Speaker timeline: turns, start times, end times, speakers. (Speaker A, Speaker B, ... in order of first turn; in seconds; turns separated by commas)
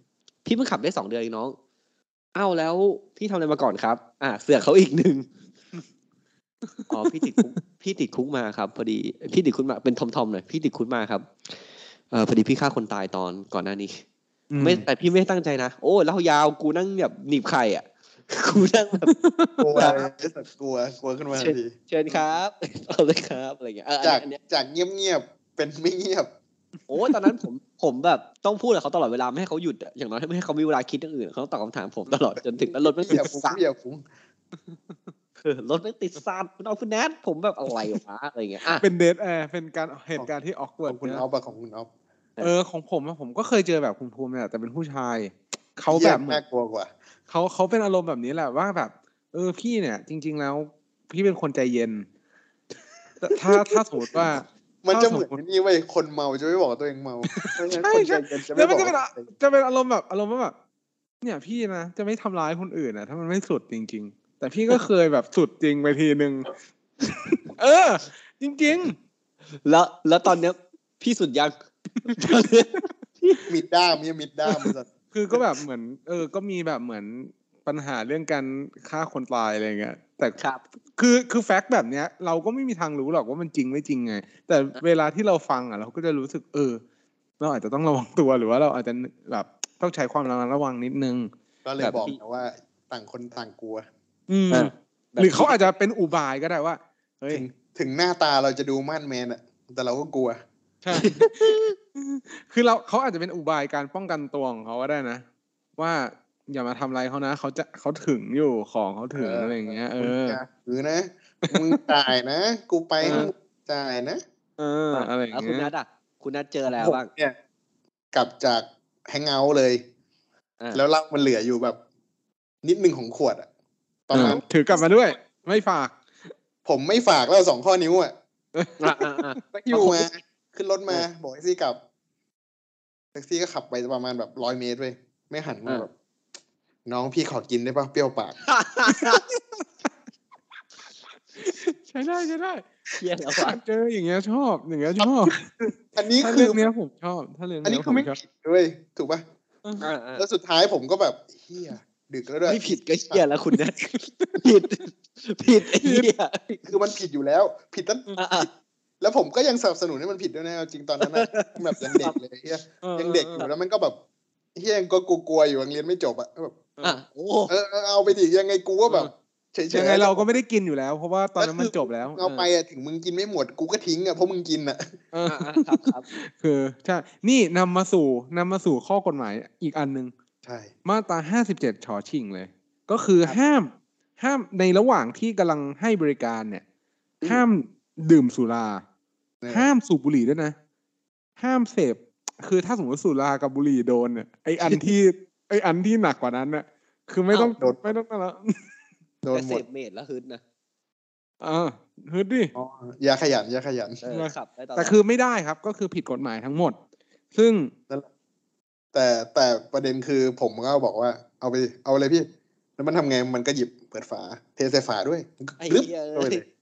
Speaker A: 0.5-1.6, Speaker A: 2.4-5.3, Speaker B: 6.9-7.5, Speaker A: 6.9-11.6, Speaker A: 12.1-14.0, Speaker B: 14.5-14.9, Speaker A: 14.6-19.1, Speaker B: 19.1-20.0, Speaker C: 19.6-21.7, Speaker A: 19.8-20.1, Speaker A: 21.4-24.4, Speaker C: 24.0-26.3, Speaker A: 26.9-33.6, Speaker C: 32.7-34.0, Speaker A: 35.4-38.9, Speaker B: 38.8-41.2, Speaker C: 40.9-41.9, Speaker B: 42.4-46.4, Speaker C: 45.9-46.9, Speaker B: 47.3-52.1, Speaker B: 53.2-55.4, Speaker C: 53.3-54.2, Speaker C: 54.8-59.3, Speaker B: 57.3-60.5, Speaker B: 61.2-66.5, Speaker B: 67.4-69.0, Speaker A: 69.7-71.5, Speaker B: 72.1-72.4, Speaker A: 72.1-73.5, Speaker C: 73.5-74.9, Speaker B: 75.1-80.4, Speaker A: 80.4-80.6, Speaker B: 81.0-86.8, Speaker B: 87.4-91.3, Speaker C: 91.7-93.9, Speaker A: 91.8-92.2, Speaker B: 94.3-97.4, Speaker A: 94.5-95.5, Speaker C: 97.3-100.4, Speaker B: 100.8-105.2, Speaker A: 100.9-101.7, Speaker B: 105.8-110.4, Speaker C: 109.1-114.2, Speaker B: 111.5-111.8, Speaker B: 113.0-113.3, Speaker B: 114.6-115.7, Speaker A: 114.9-117.1, Speaker C: 116.7-117.3, Speaker C: 118.1-119.8, Speaker C: 120.7-121.8, Speaker C: 122.6-123.5, Speaker C: 124.1-124.4, Speaker B: 124.1-126.0, Speaker A: 124.2-124.4, Speaker C: 126.7-128.1, Speaker B: 128.6-129.1, Speaker A: 128.8-130.1, Speaker C: 129.5-131.8, Speaker C: 133.2-135.9, Speaker C: 136.9-138.4, Speaker A: 138.4-139.2, Speaker B: 138.9-139.4, Speaker B: 141.4-142.7, Speaker A: 142.9-143.6, Speaker B: 143.3-145.4, Speaker C: 145.0-146.7, Speaker B: 146.2-148.2, Speaker C: 147.6-149.2, Speaker A: 149.8-150.2, Speaker C: 150.2-153.2, Speaker A: 152.5-156.7, Speaker B: 153.9-154.6, Speaker B: 155.7-156.1, Speaker C: 156.7-158.5, Speaker A: 158.2-158.5, Speaker C: 159.0-164.0, Speaker A: 161.0-162.2, Speaker B: 162.8-163.4, Speaker C: 164.6-166.7, Speaker A: 166.8-167.5, Speaker C: 167.5-170.3, Speaker B: 169.7-172.5, Speaker C: 171.4-175.0, Speaker B: 175.1-180.1, Speaker A: 175.3-176.1, Speaker C: 180.4-180.7, Speaker B: 180.8-186.6, Speaker B: 187.2-188.8, Speaker C: 189.4-189.7, Speaker B: 189.5-190.6, Speaker B: 191.4-198.7, Speaker C: 197.6-198.0, Speaker C: 199.2-199.6, Speaker A: 199.3-200.4, Speaker B: 201.4-202.5, Speaker C: 202.5-204.0, Speaker A: 204.0-205.0, Speaker B: 204.1-206.8, Speaker B: 207.3-207.7, Speaker C: 208.9-216.4, Speaker A: 215.6-216.4